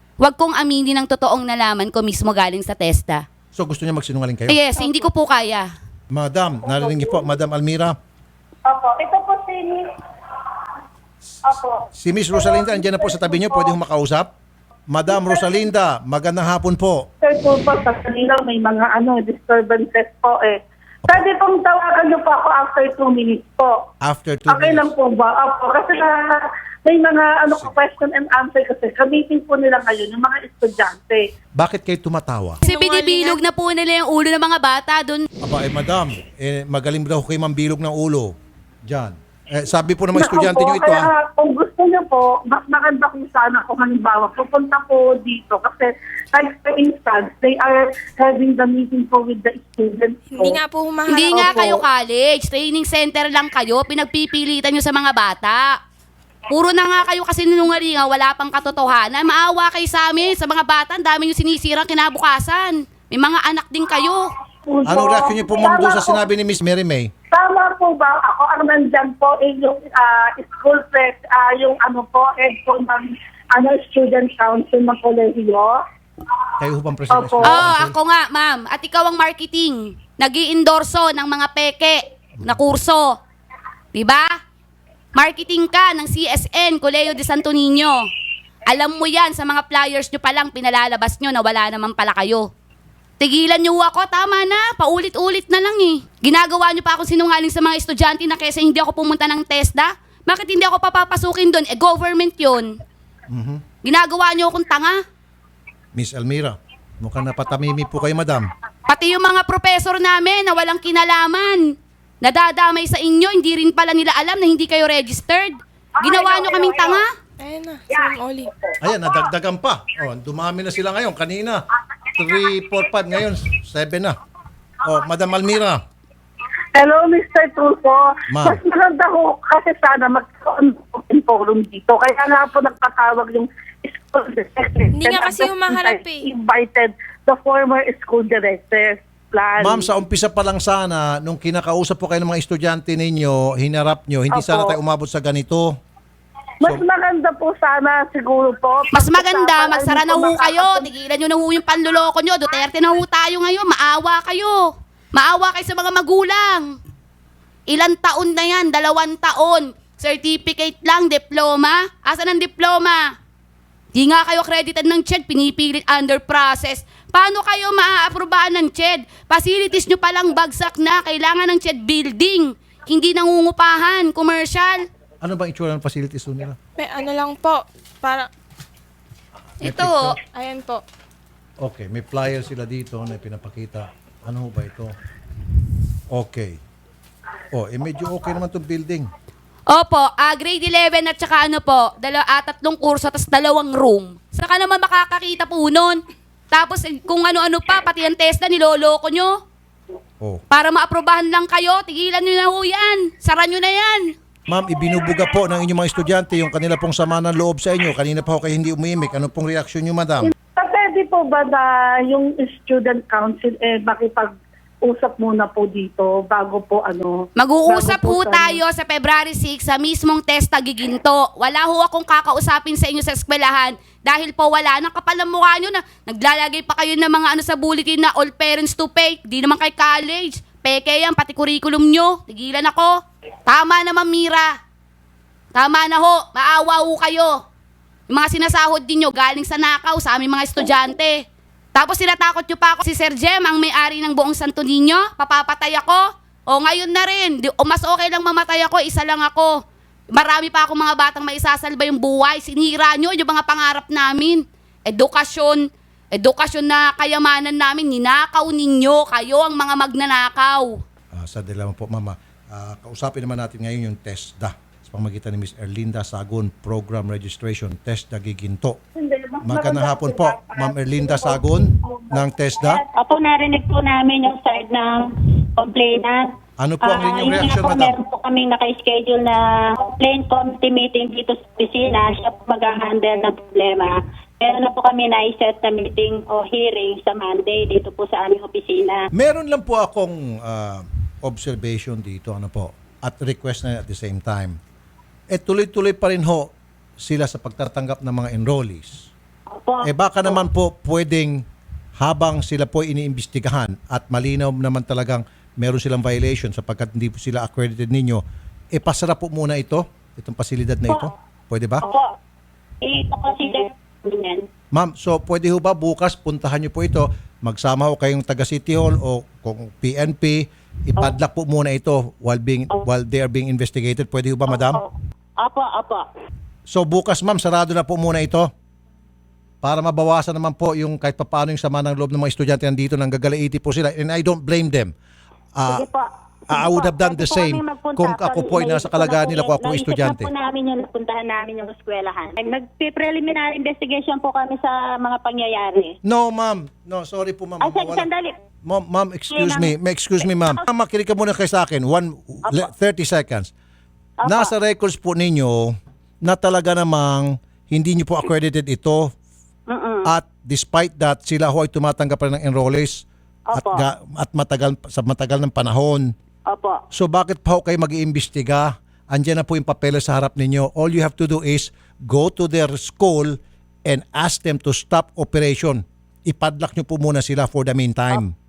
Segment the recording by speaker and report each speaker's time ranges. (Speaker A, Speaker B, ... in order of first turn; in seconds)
Speaker A: 0.2-3.2, 4.5-5.7, 32.6-35.3, 51.1-55.8, 56.5-64.3, 77.4-83.2, 83.9-84.3, 85.2-88.0, 88.7-92.5, 93.2-102.7, 103.8-105.0, 108.9-111.6, 112.2-117.1, 148.9-156.8, 157.7-163.1, 163.9-174.9, 179.6-180.2, 189.7-199.3, 200.5-204.0, 217.4-232.9, 233.5-234.5, 235.5-237.4, 238.1-249.6, 250.1-260.8
Speaker B: 3.5-4.6, 6.1-8.0, 11.9-14.3, 14.9-17.1, 24.0-24.9, 31.6-32.6, 35.4-38.3, 38.9-41.1, 64.9-67.1, 76.6-77.9, 103.3-103.6, 106.0-108.5, 118.8-124.2, 124.8-125.8, 128.3-128.6, 139.6-145.7, 175.2-176.6, 179.6-180.2, 181.6-184.9, 186.1-186.6, 187.5-189.1, 204.5-210.3, 261.1-268.8, 269.4-272.8, 276.6-278.0, 289.1-294.6, 295.3-299.1, 299.8-301.4, 302.0-308.2, 308.7-311.9, 314.7-324.8, 326.7-328.5, 329.6-334.9, 335.6-335.9, 336.5-340.3, 346.0-348.1, 348.6-353.5, 354.2-359.0, 360.1-366.1, 366.9-373.4, 373.9-378.3
Speaker C: 6.6-7.3, 8.7-9.9, 11.5-13.7, 15.1-15.6, 17.2-23.8, 24.5-31.2, 40.1-50.6, 64.7-66.2, 67.3-75.8, 77.1-77.7, 116.0-117.0, 126.8-139.9, 144.3-144.8, 146.6-150.9, 210.2-214.3, 214.8-218.6, 269.0-272.9
Speaker D: 32.6-33.4, 50.3-51.8, 117.4-118.5, 134.9-136.3, 176.8-178.3, 180.3-180.8
Speaker E: 272.9-276.3, 276.8-289.1, 299.5-300.4, 311.8-312.1, 312.8-314.5, 324.5-326.1, 335.7-346.0, 347.6-348.4, 349.3-350.6, 354.2-354.5, 359.7-360.1, 363.5-363.9, 366.5-366.8